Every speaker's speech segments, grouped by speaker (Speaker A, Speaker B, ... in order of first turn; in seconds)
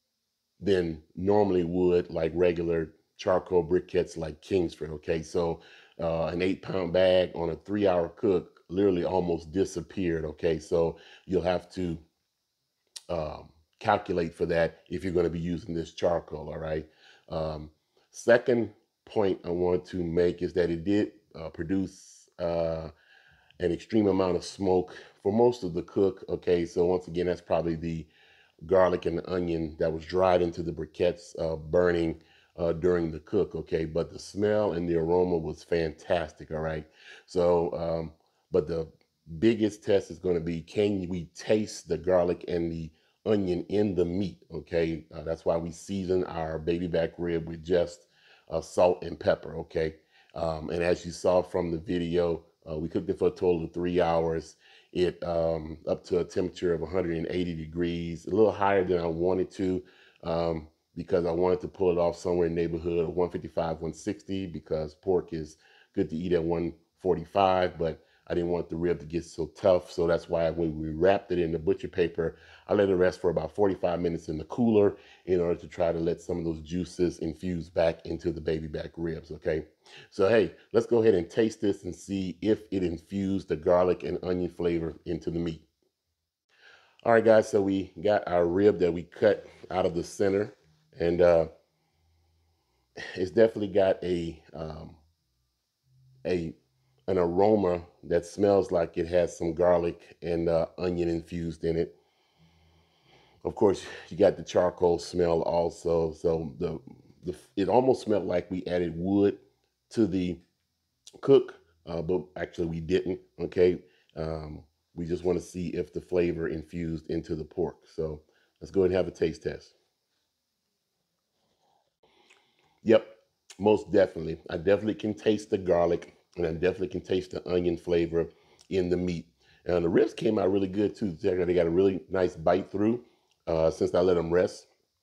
Speaker A: 0.6-12.0, 13.1-22.9, 23.6-28.1, 28.6-85.7, 87.0-91.5, 93.1-95.0, 96.2-96.5, 97.1-102.0, 103.4-110.4, 111.2-119.7, 122.8-134.7